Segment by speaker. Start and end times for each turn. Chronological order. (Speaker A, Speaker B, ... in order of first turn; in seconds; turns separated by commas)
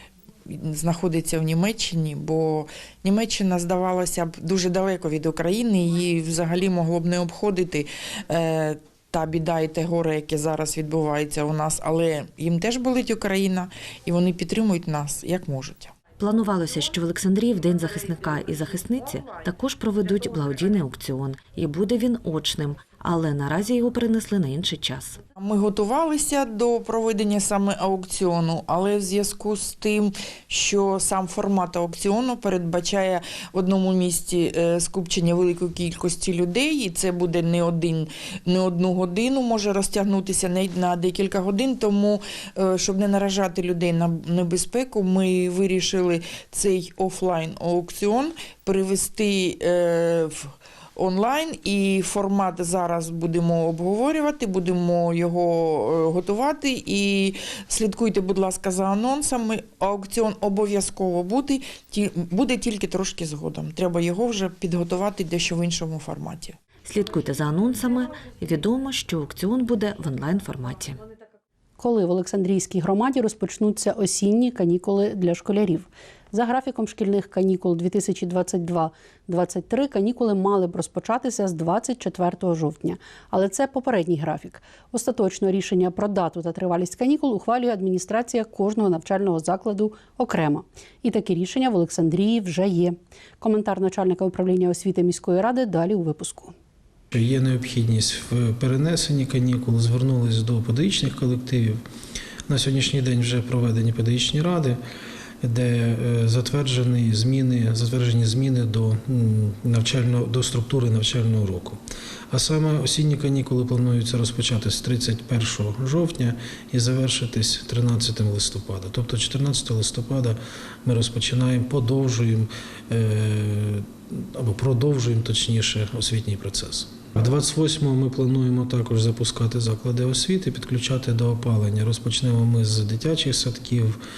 Speaker A: 0.5-15.9, Speaker B: 16.1-25.2, Speaker A: 25.4-66.6, Speaker B: 66.8-71.0, Speaker C: 71.8-96.5, Speaker D: 97.1-101.8, Speaker D: 102.5-104.8, Speaker D: 105.4-111.8, Speaker D: 112.3-134.0